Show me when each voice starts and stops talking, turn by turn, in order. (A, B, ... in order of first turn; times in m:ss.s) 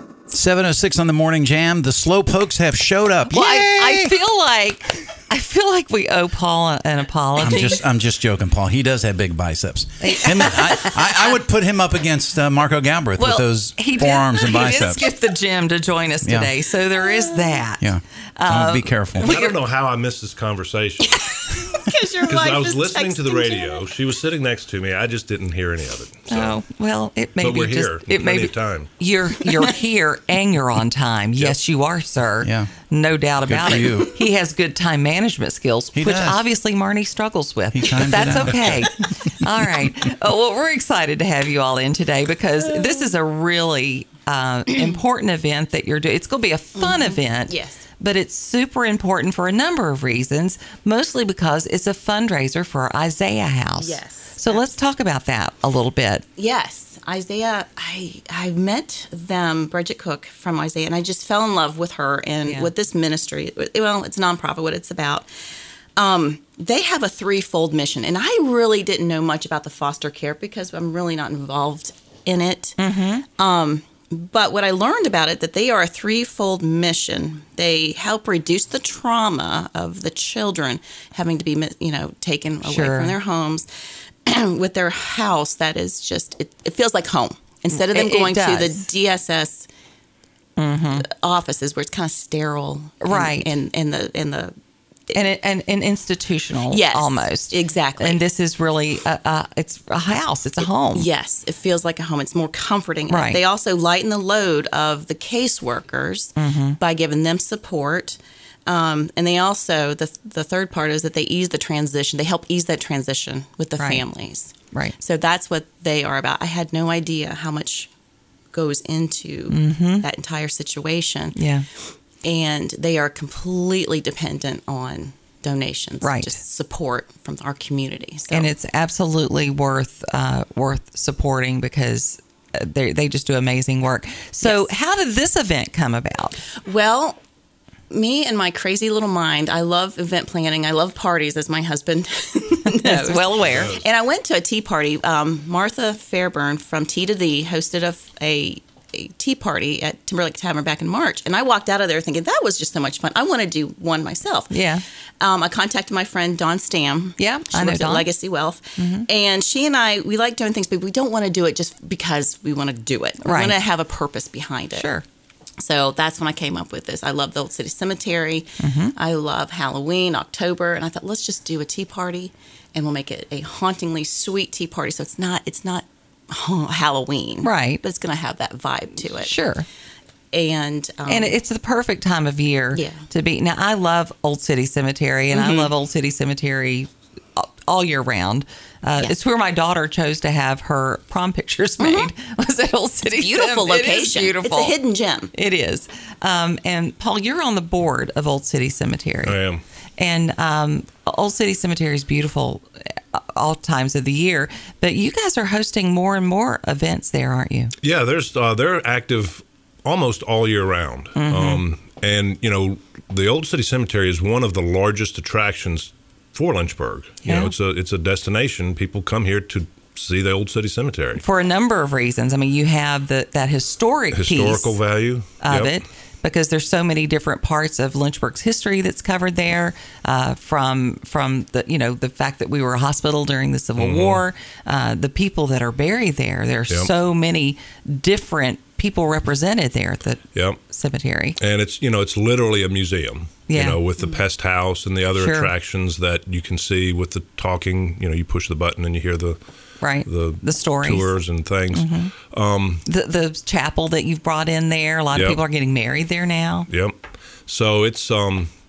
0:00.3-0:04.0 A
0:03.3-0:07.8 B
0:07.4-0:15.1 A
0:10.0-0:11.3 B
0:13.2-0:19.6 B
0:16.2-0:16.5 A
0:17.8-0:19.3 A
0:19.2-0:21.2 C
0:21.0-0:23.9 D
0:22.2-0:26.6 C
0:26.3-0:56.2 B
0:27.4-0:28.9 C
0:32.4-0:32.7 A
0:33.4-0:34.1 A
0:35.9-0:36.4 A
0:37.7-0:38.8 A
0:46.8-0:47.9 D
0:53.8-0:54.7 D
0:56.4-1:05.3 D
1:02.4-1:02.7 B
1:06.0-1:12.8 D
1:12.8-1:13.2 B
1:13.4-1:23.7 D
1:22.6-1:23.2 B
1:24.2-1:29.7 D
1:27.7-1:28.8 B
1:30.6-1:31.0 B
1:31.0-1:34.5 D
1:33.0-1:33.6 B
1:35.1-1:41.1 B
1:36.7-1:38.2 D
1:40.9-1:57.9 D
1:43.1-1:43.4 B
1:46.4-1:46.8 B
1:53.8-1:54.0 B
1:58.5-2:01.4 D
1:59.5-2:00.0 B
2:01.3-2:01.6 B
2:02.2-2:08.5 D
2:06.0-2:06.4 B
2:08.3-2:16.4 B
2:14.4-2:14.7 D
2:16.6-2:17.2 D
2:17.9-2:34.5 D
2:22.7-2:23.7 B
2:23.4-2:23.8 C
2:34.5-2:34.8 B
2:35.2-2:44.9 D
2:37.2-2:38.1 B
2:38.8-2:39.1 B
2:43.2-2:43.6 B
2:44.7-2:45.0 B
2:45.6-2:59.4 D
2:48.6-2:48.9 B
2:57.4-2:57.8 B
2:59.0-2:59.6 B
3:00.3-3:01.4 D
3:01.1-3:14.8 B
3:02.7-3:03.1 D
3:05.3-3:05.7 D
3:11.8-3:12.1 D
3:13.1-3:15.3 D
3:15.3-3:19.4 B
3:19.2-3:19.6 C
3:20.0-3:27.7 B
3:27.8-3:41.2 C
3:31.2-3:31.6 B
3:37.2-3:37.5 B
3:41.1-3:44.8 B
3:44.1-3:45.8 C
3:45.4-4:01.4 B
3:53.8-3:54.2 C
4:00.3-4:00.6 C
4:01.4-4:09.4 C
4:03.5-4:03.8 B
4:04.0-4:04.2 D
4:05.1-4:05.5 B
4:09.8-4:11.1 B
4:10.0-4:12.8 C
4:11.7-4:12.1 B
4:12.8-4:16.7 B
4:15.1-4:15.4 C
4:16.7-4:18.5 C